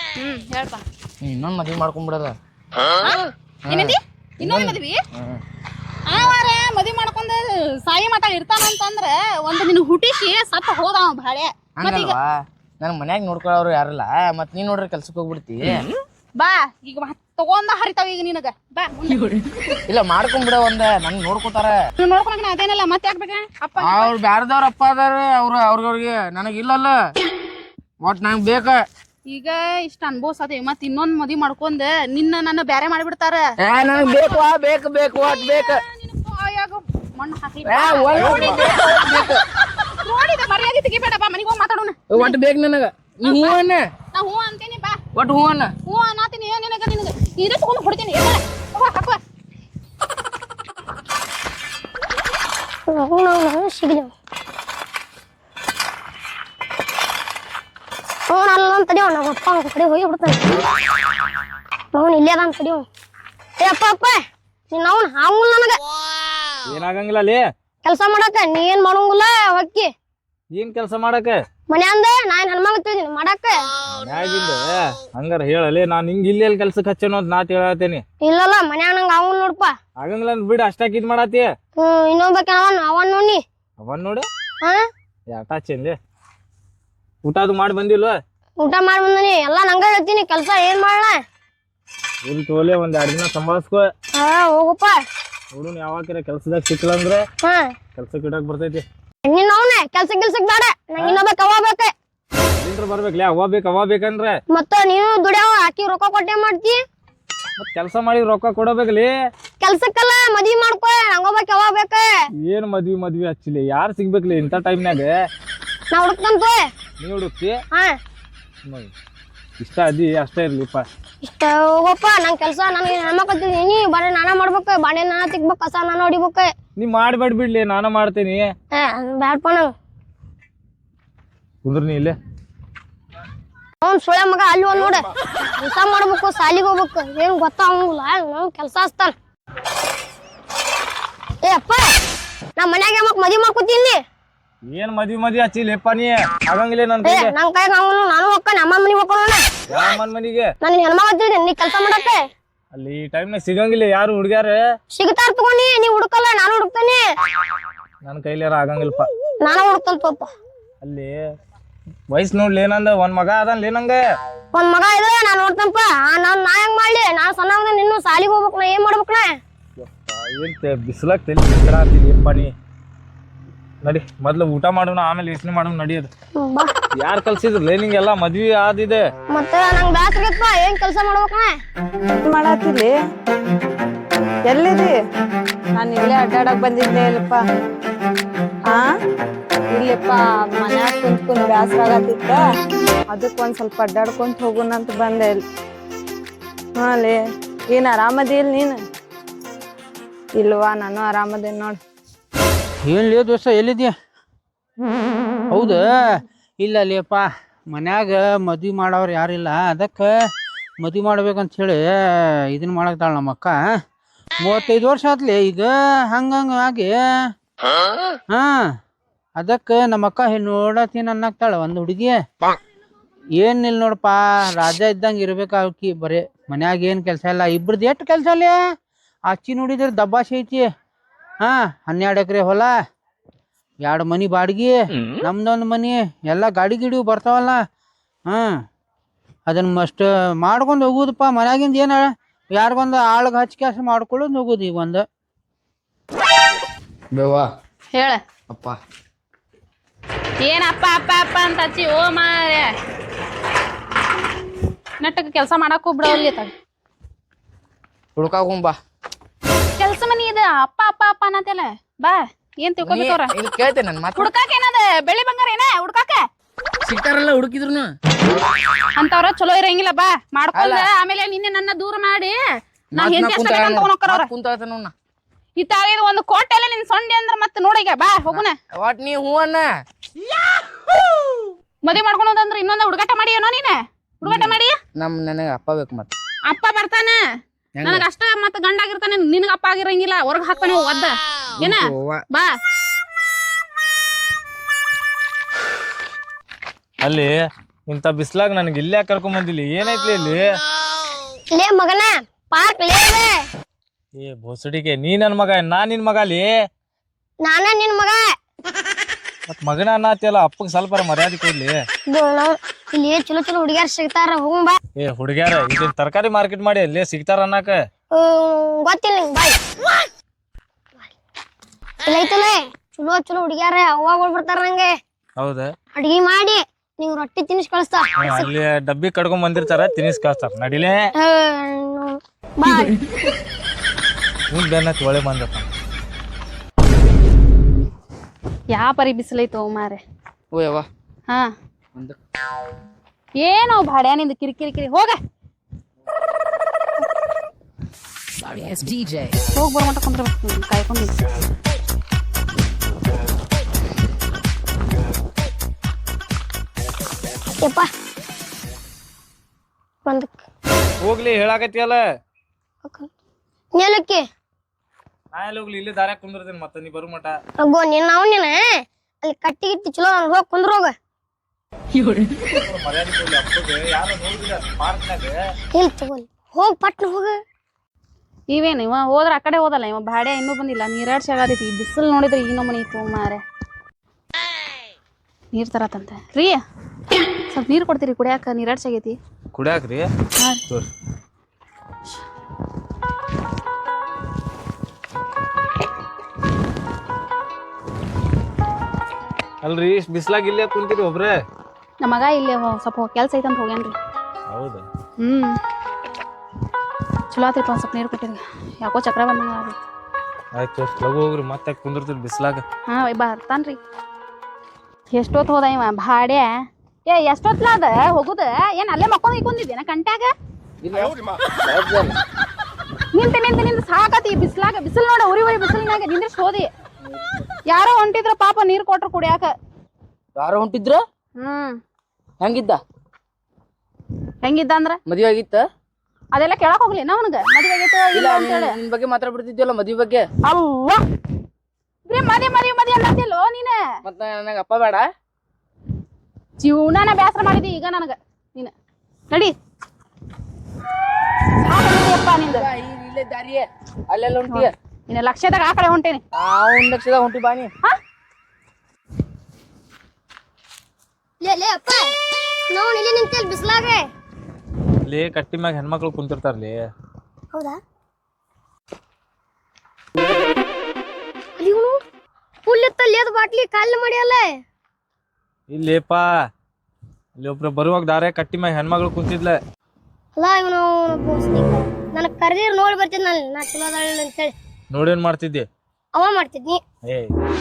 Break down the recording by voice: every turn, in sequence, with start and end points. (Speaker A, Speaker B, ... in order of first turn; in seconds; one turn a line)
Speaker A: 0.2-0.8
Speaker B: 1.2-2.4
Speaker B: 3.7-5.4
Speaker A: 3.7-5.0
Speaker A: 6.1-12.2
Speaker B: 11.8-15.9
Speaker A: 16.4-19.3
Speaker B: 19.9-21.8
Speaker A: 22.0-24.1
Speaker B: 23.8-26.9
Speaker B: 28.0-28.8
Speaker A: 29.3-34.5
Speaker B: 33.6-35.8
Speaker A: 35.2-39.3
Speaker B: 37.6-39.4
Speaker A: 40.0-42.4
Speaker B: 42.1-43.9
Speaker A: 43.2-43.6
Speaker A: 44.1-45.0
Speaker B: 45.1-45.7
Speaker A: 45.8-49.2
Speaker C: 52.9-54.1
Speaker C: 58.3-60.4
Speaker C: 61.9-62.9
Speaker C: 63.6-64.2
Speaker C: 64.7-65.8
Speaker D: 66.7-67.4
Speaker C: 67.8-69.9
Speaker D: 70.5-71.4
Speaker C: 71.7-73.5
Speaker D: 73.9-78.0
Speaker C: 78.2-79.7
Speaker D: 80.0-81.5
Speaker C: 81.8-83.4
Speaker D: 83.8-84.2
Speaker D: 85.3-86.0
Speaker D: 87.2-88.2
Speaker C: 88.6-91.2
Speaker D: 92.2-93.9
Speaker C: 94.2-95.0
Speaker D: 95.5-97.2
Speaker C: 97.4-97.7
Speaker D: 98.0-98.8
Speaker C: 99.2-101.9
Speaker D: 102.6-104.4
Speaker C: 104.5-106.8
Speaker D: 107.6-109.1
Speaker C: 109.6-112.1
Speaker D: 112.4-115.1
Speaker C: 115.9-116.6
Speaker D: 117.0-117.5
Speaker D: 118.7-118.9
Speaker D: 119.6-120.8
Speaker C: 121.2-126.5
Speaker D: 126.8-128.5
Speaker C: 128.7-129.7
Speaker D: 131.6-132.2
Speaker C: 133.8-139.1
Speaker C: 141.4-141.9
Speaker C: 142.6-144.0
Speaker D: 144.7-147.3
Speaker C: 147.0-149.4
Speaker D: 149.7-150.4
Speaker C: 150.6-152.2
Speaker D: 152.7-154.6
Speaker C: 154.9-157.0
Speaker D: 158.0-159.1
Speaker C: 159.4-160.3
Speaker D: 160.8-161.1
Speaker D: 162.1-164.0
Speaker C: 164.5-169.3
Speaker D: 169.8-172.5
Speaker D: 173.8-176.1
Speaker C: 176.4-176.7
Speaker D: 177.0-179.0
Speaker C: 179.3-181.5
Speaker E: 182.2-182.9
Speaker E: 184.5-184.9
Speaker E: 185.8-187.4
Speaker E: 189.7-192.4
Speaker E: 193.1-195.4
Speaker E: 196.8-197.2
Speaker E: 197.7-198.8
Speaker E: 200.3-201.8
Speaker F: 202.8-203.9
Speaker F: 205.5-206.1
Speaker F: 206.6-210.1
Speaker F: 210.8-213.6
Speaker F: 214.4-216.9
Speaker F: 218.3-218.7
Speaker F: 219.4-222.2
Speaker F: 223.4-228.6
Speaker F: 229.3-230.7
Speaker F: 231.4-232.7
Speaker F: 233.8-237.6
Speaker F: 239.5-245.0
Speaker B: 247.1-247.5
Speaker A: 247.9-248.2
Speaker B: 248.5-248.8
Speaker A: 250.4-252.7
Speaker A: 255.0-256.5
Speaker B: 258.1-258.8
Speaker A: 259.8-263.3
Speaker B: 262.8-264.3
Speaker A: 264.1-266.2
Speaker B: 266.8-267.9
Speaker A: 269.0-272.4
Speaker B: 270.5-270.9
Speaker B: 272.9-274.9
Speaker A: 272.9-274.3
Speaker A: 275.6-278.6
Speaker B: 278.3-279.7
Speaker A: 281.8-284.7
Speaker B: 284.2-286.1
Speaker A: 286.5-287.2
Speaker B: 287.8-288.1
Speaker A: 287.8-292.5
Speaker B: 291.6-292.2
Speaker D: 297.0-297.3
Speaker D: 297.9-300.5
Speaker C: 301.5-303.4
Speaker D: 304.1-306.5
Speaker C: 307.4-308.2
Speaker D: 309.5-311.8
Speaker C: 312.1-314.8
Speaker D: 315.0-317.8
Speaker C: 318.1-319.6
Speaker C: 322.0-324.9
Speaker D: 325.4-325.7
Speaker C: 325.9-328.5
Speaker D: 328.2-330.9
Speaker C: 331.2-332.9
Speaker D: 334.5-335.7
Speaker A: 338.7-340.0
Speaker B: 340.5-340.9
Speaker A: 343.4-345.2
Speaker B: 348.5-349.3
Speaker A: 349.5-351.1
Speaker C: 357.6-357.9
Speaker C: 360.0-360.4
Speaker D: 361.0-362.0
Speaker C: 363.8-364.2
Speaker D: 365.3-367.3
Speaker C: 367.6-368.6
Speaker C: 369.2-370.9
Speaker D: 372.5-375.3
Speaker C: 375.7-377.4
Speaker A: 378.5-383.4
Speaker A: 385.5-386.6
Speaker A: 387.5-389.2
Speaker D: 389.5-390.1
Speaker D: 399.6-401.3
Speaker A: 402.0-403.9
Speaker D: 404.5-404.8
Speaker A: 405.2-405.5
Speaker A: 407.3-409.8
Speaker D: 410.5-412.6
Speaker A: 412.9-413.8
Speaker A: 415.1-416.5
Speaker A: 417.1-420.3
Speaker B: 420.8-422.2
Speaker A: 423.1-426.7
Speaker A: 427.7-429.5
Speaker B: 430.4-431.0
Speaker E: 431.4-431.8
Speaker B: 432.4-432.8
Speaker A: 434.4-435.0
Speaker B: 435.1-435.6
Speaker A: 436.3-438.8
Speaker B: 438.1-440.3
Speaker A: 440.4-441.0
Speaker A: 442.1-443.8
Speaker B: 444.0-445.0
Speaker A: 446.6-448.7
Speaker A: 451.6-452.7
Speaker B: 452.4-454.7
Speaker A: 454.5-456.2
Speaker B: 456.3-457.7
Speaker C: 461.4-462.1
Speaker C: 462.7-464.0
Speaker D: 465.0-466.8
Speaker C: 471.6-471.9
Speaker C: 472.6-474.5
Speaker D: 475.7-476.2
Speaker D: 477.4-479.6
Speaker C: 480.4-484.5
Speaker D: 484.9-485.6
Speaker C: 486.1-486.8
Speaker D: 487.1-487.3